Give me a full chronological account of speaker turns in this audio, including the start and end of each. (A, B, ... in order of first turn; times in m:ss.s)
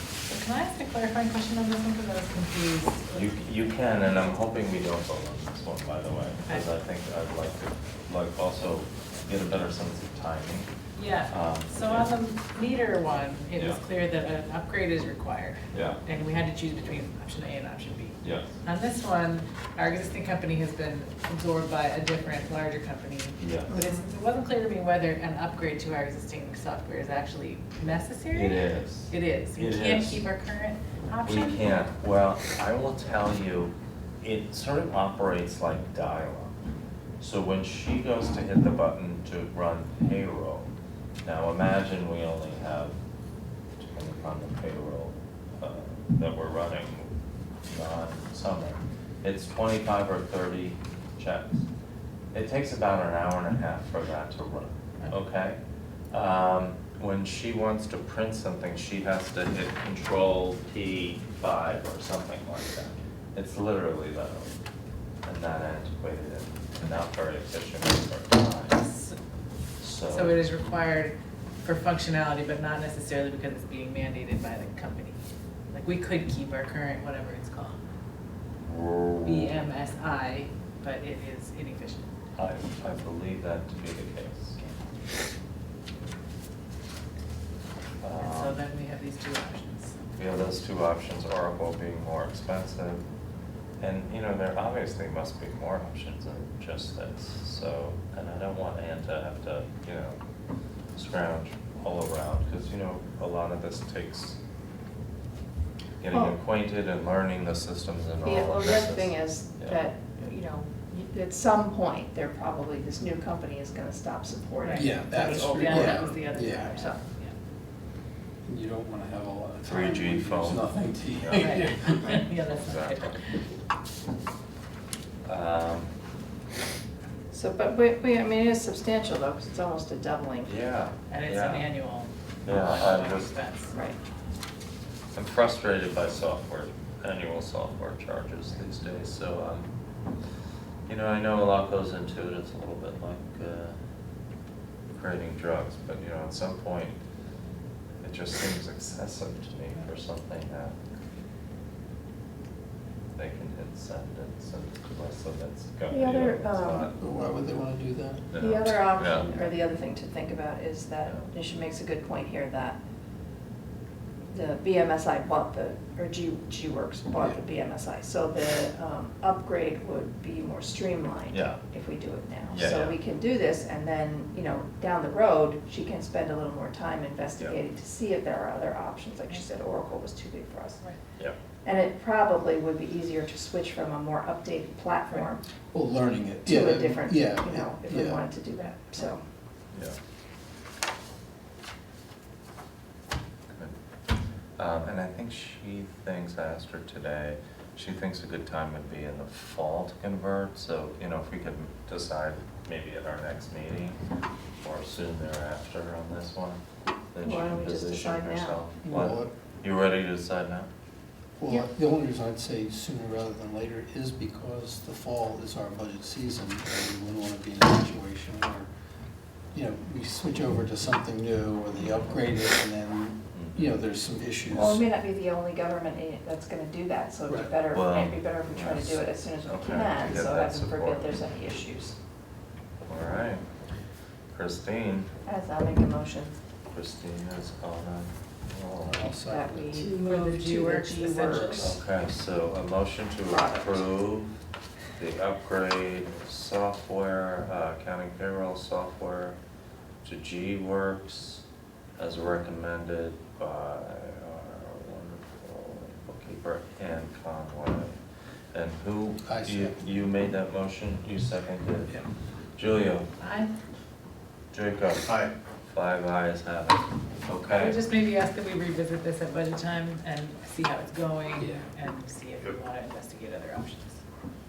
0:00.3-0:03.2 A
0:03.1-0:10.7 B
0:11.0-0:31.8 A
0:11.3-0:12.1 B
0:13.6-0:13.8 B
0:15.7-0:16.0 B
0:18.2-0:18.6 B
0:23.4-0:23.8 B
0:23.7-0:24.0 C
0:28.3-0:30.2 B
0:31.2-0:36.6 B
0:37.2-0:40.7 B
0:41.2-0:43.0 B
0:43.8-0:47.1 B
0:47.6-0:51.6 B
0:52.3-0:55.6 B
0:56.1-1:04.5 B
1:05.2-1:08.8 B
1:08.7-1:09.2 A
1:09.8-1:10.4 B
1:10.1-1:15.2 A
1:15.7-1:17.8 A
1:18.6-1:19.6 B
1:19.2-1:22.1 A
1:22.4-1:24.8 B
1:28.0-1:28.6 B
1:28.2-1:30.0 A
1:30.2-1:33.0 B
1:33.8-1:40.2 B
1:40.9-1:44.4 B
1:46.0-1:49.8 B
1:46.1-1:46.4 C
1:48.2-1:57.0 C
1:54.6-1:57.3 A
1:54.8-1:56.7 D
1:58.4-2:02.2 D
1:59.6-2:01.6 B
2:01.3-2:03.2 A
2:02.5-2:03.2 B
2:05.2-2:05.9 B
2:07.3-2:10.5 C
2:10.4-2:11.7 B
2:11.1-2:13.7 A
2:12.4-2:13.4 B
2:15.1-2:19.7 B
2:20.9-2:23.8 B
2:24.9-2:27.0 B
2:28.0-2:30.8 B
2:33.1-2:37.0 B
2:35.9-2:36.9 C
2:36.9-2:38.3 D
2:38.3-2:39.3 B
2:38.4-2:42.8 C
2:44.3-3:00.8 C
2:51.3-2:51.6 B
2:52.5-2:53.0 B
3:01.6-3:05.4 C
3:05.7-3:08.2 D
3:06.4-3:09.2 C
3:14.6-3:24.0 B
3:24.6-3:26.6 B
3:27.1-3:30.7 B
3:27.2-3:28.6 C
3:28.8-3:29.3 D
3:31.4-3:38.7 D
3:39.5-3:44.8 D
3:41.8-3:42.2 B
3:43.3-3:43.7 B
3:44.5-3:51.9 C
3:47.7-3:51.1 B
3:52.8-3:53.4 B
3:54.3-3:55.1 B
3:55.2-3:56.4 C
3:56.7-3:59.1 B
3:58.8-3:59.9 D
3:59.3-4:01.8 C
3:59.8-4:01.7 A
4:01.6-4:04.4 B
4:03.3-4:03.8 C
4:05.0-4:09.4 B
4:10.0-4:11.4 B
4:12.0-4:18.0 B
4:18.5-4:21.9 B
4:19.2-4:19.8 D
4:22.6-4:23.1 B
4:23.2-4:23.5 A
4:24.5-4:25.1 B
4:25.6-4:27.8 B
4:27.5-4:34.0 A
4:31.4-4:31.7 D